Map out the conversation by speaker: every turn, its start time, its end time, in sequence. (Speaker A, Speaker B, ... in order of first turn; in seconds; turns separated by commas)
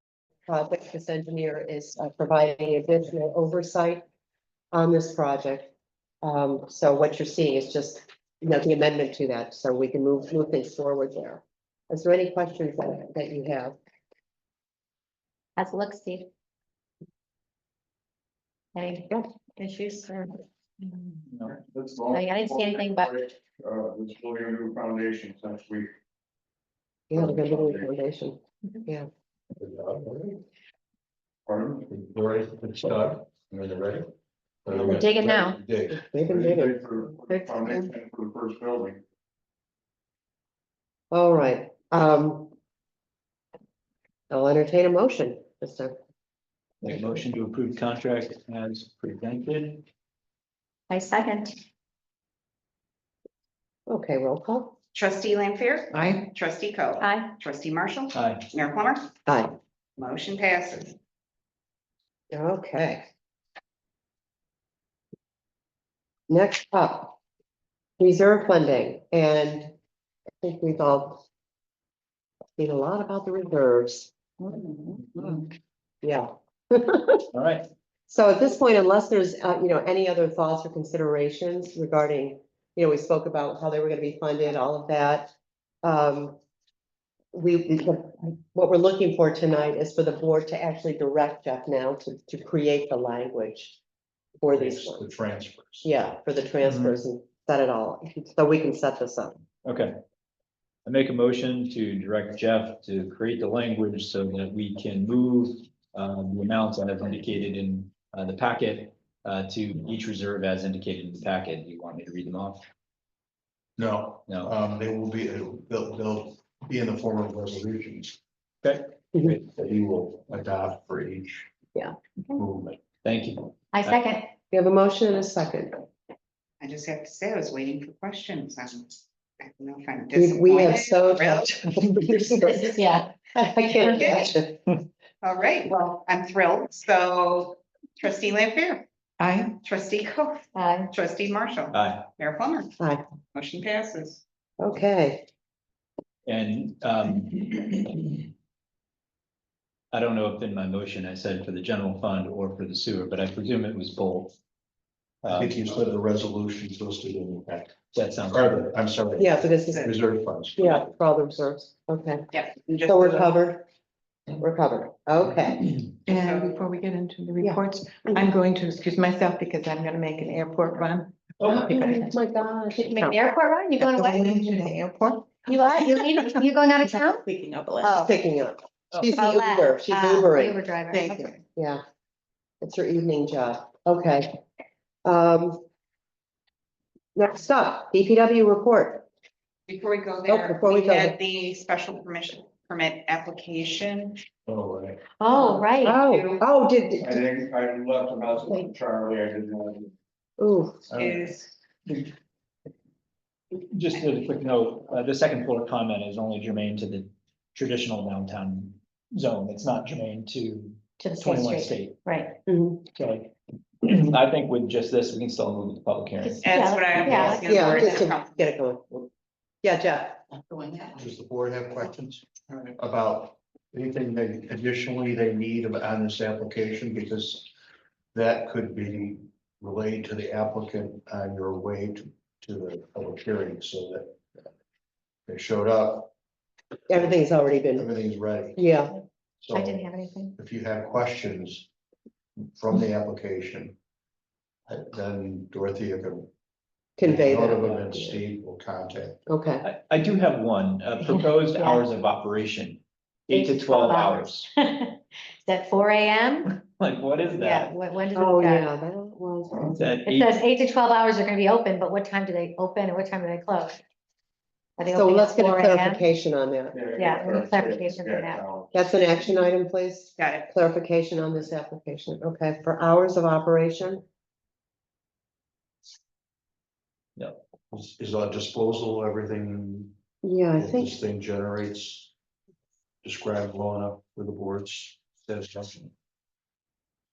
Speaker A: 0.5-4.0, Speaker A: 4.7-5.7, Speaker A: 6.2-13.8, Speaker B: 15.6-16.3, Speaker B: 18.7-21.1, Speaker C: 21.3-21.5, Speaker D: 21.4-25.9, Speaker B: 22.1-23.2, Speaker A: 27.1-29.1, Speaker D: 27.2-27.9, Speaker E: 29.5-30.4, Speaker D: 31.5-31.8, Speaker E: 31.8-34.1, Speaker E: 34.6-36.0, Speaker D: 34.7-35.1, Speaker B: 34.9-35.6, Speaker A: 35.9-36.9, Speaker D: 36.2-39.0, Speaker B: 37.3-37.9, Speaker A: 41.1-42.5, Speaker A: 44.3-45.9, Speaker C: 46.8-49.8, Speaker B: 50.9-51.6, Speaker A: 53.9-54.7, Speaker F: 54.9-59.1, Speaker G: 55.9-56.3, Speaker B: 57.0-57.3, Speaker C: 58.1-58.5, Speaker A: 59.3-59.5, Speaker F: 60.0-61.0, Speaker A: 62.3-63.0, Speaker A: 66.3-67.2, Speaker A: 68.0-69.7, Speaker A: 70.4-71.2, Speaker A: 72.6-74.1, Speaker A: 76.0-77.2, Speaker C: 77.3-77.6, Speaker A: 78.1-85.3, Speaker A: 85.8-86.4, Speaker A: 87.3-93.8, Speaker A: 94.4-95.0, Speaker E: 94.5-95.9, Speaker A: 95.8-99.4, Speaker C: 96.6-97.0, Speaker C: 99.6-99.9, Speaker C: 100.8-112.6, Speaker E: 113.8-118.2, Speaker C: 114.3-114.5, Speaker C: 118.6-119.4, Speaker E: 119.3-121.4, Speaker E: 122.3-122.8, Speaker C: 123.0-124.0, Speaker B: 123.7-124.3, Speaker A: 124.5-125.8, Speaker F: 126.6-132.5, Speaker A: 130.1-132.8, Speaker B: 132.5-133.1, Speaker A: 133.3-134.6, Speaker F: 133.8-134.3, Speaker B: 133.8-134.3, Speaker F: 135.2-138.8, Speaker G: 139.2-139.5, Speaker F: 139.6-142.7, Speaker B: 140.5-140.9, Speaker C: 141.7-142.1, Speaker F: 143.3-144.2, Speaker A: 144.6-145.3, Speaker C: 146.3-148.2, Speaker C: 149.9-154.3, Speaker C: 155.2-155.5, Speaker E: 155.3-157.8, Speaker C: 157.9-158.6, Speaker E: 158.3-160.9, Speaker A: 159.2-159.9, Speaker A: 160.6-162.3, Speaker F: 162.3-163.3, Speaker A: 162.8-163.7, Speaker A: 164.4-165.7, Speaker G: 166.1-171.9, Speaker F: 166.1-166.6, Speaker A: 167.4-168.2, Speaker C: 171.4-171.7, Speaker A: 171.4-173.2, Speaker B: 172.8-174.3, Speaker G: 173.8-178.0, Speaker B: 175.5-177.2, Speaker A: 177.9-180.6, Speaker B: 179.2-181.2, Speaker F: 180.9-181.4, Speaker A: 181.5-181.8, Speaker A: 182.6-184.4, Speaker A: 185.0-185.6, Speaker A: 187.2-189.1, Speaker F: 189.7-194.2, Speaker A: 190.2-191.2, Speaker E: 194.4-195.0, Speaker B: 195.2-196.0, Speaker F: 195.3-196.4, Speaker A: 195.8-197.2, Speaker D: 197.0-199.9, Speaker A: 200.4-200.8, Speaker E: 200.9-201.2, Speaker F: 200.9-201.5, Speaker C: 203.5-212.0, Speaker B: 211.0-212.4, Speaker A: 212.5-212.8, Speaker C: 212.9-213.3, Speaker C: 213.8-216.5, Speaker B: 216.2-218.0, Speaker F: 216.4-218.5, Speaker A: 217.0-219.0, Speaker A: 219.6-220.2, Speaker E: 220.9-227.5, Speaker E: 228.1-234.2, Speaker E: 235.3-236.1, Speaker A: 236.9-237.9, Speaker E: 237.7-238.6, Speaker A: 238.6-238.9, Speaker E: 239.4-241.7, Speaker B: 239.5-240.3, Speaker E: 242.5-243.8, Speaker E: 244.7-246.3, Speaker A: 247.0-248.2, Speaker E: 247.0-249.2, Speaker A: 249.3-249.7, Speaker C: 249.6-254.5, Speaker B: 253.3-256.5, Speaker C: 256.5-257.7, Speaker B: 257.4-258.7, Speaker A: 258.1-259.9, Speaker C: 259.8-260.4, Speaker B: 260.0-263.8, Speaker B: 264.8-266.0, Speaker A: 264.9-266.8, Speaker D: 266.7-268.7, Speaker B: 266.9-268.4, Speaker A: 268.7-274.0, Speaker F: 270.2-270.4, Speaker E: 277.7-279.9, Speaker A: 280.2-280.9, Speaker E: 280.6-282.1, Speaker E: 283.0-285.9